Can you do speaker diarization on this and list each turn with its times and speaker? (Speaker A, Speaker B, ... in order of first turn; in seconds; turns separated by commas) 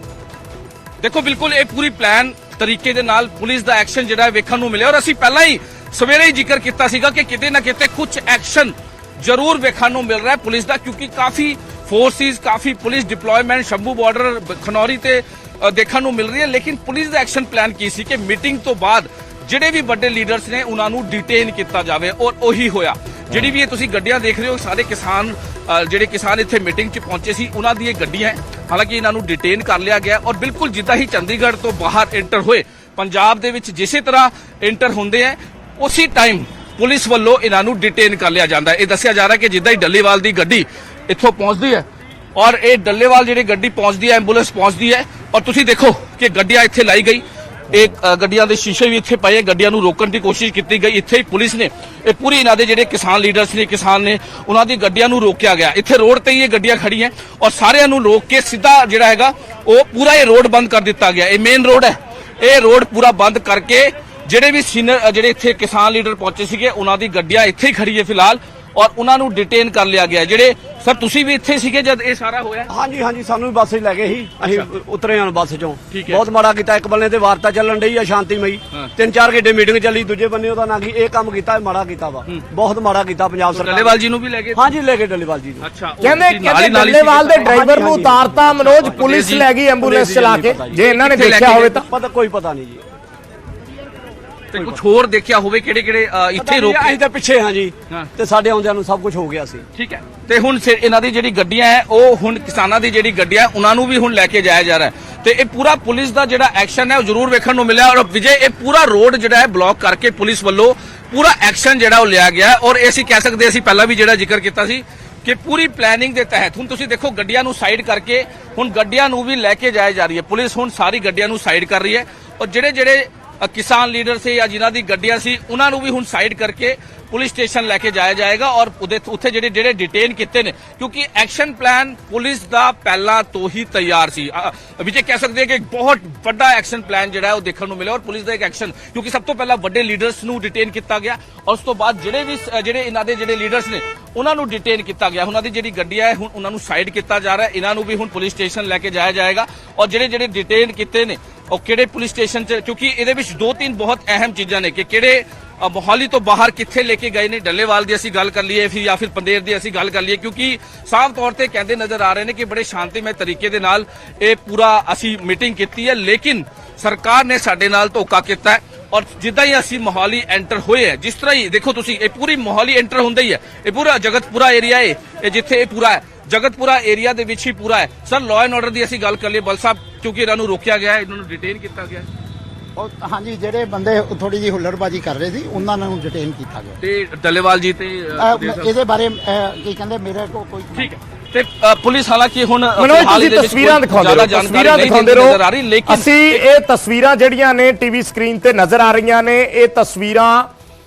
Speaker A: 1.0-72.7, Speaker B: 72.7-84.0, Speaker A: 74.4-74.7, Speaker A: 75.9-76.2, Speaker A: 83.5-84.6, Speaker B: 84.5-85.7, Speaker A: 85.6-87.5, Speaker C: 86.0-91.8, Speaker B: 87.4-89.0, Speaker A: 88.6-89.5, Speaker B: 89.8-90.8, Speaker A: 90.8-91.9, Speaker B: 91.9-92.8, Speaker A: 94.5-97.0, Speaker B: 96.4-99.6, Speaker A: 99.7-182.1, Speaker D: 182.8-186.8, Speaker A: 186.8-188.7, Speaker D: 188.2-190.9, Speaker A: 190.7-196.4, Speaker C: 192.8-200.5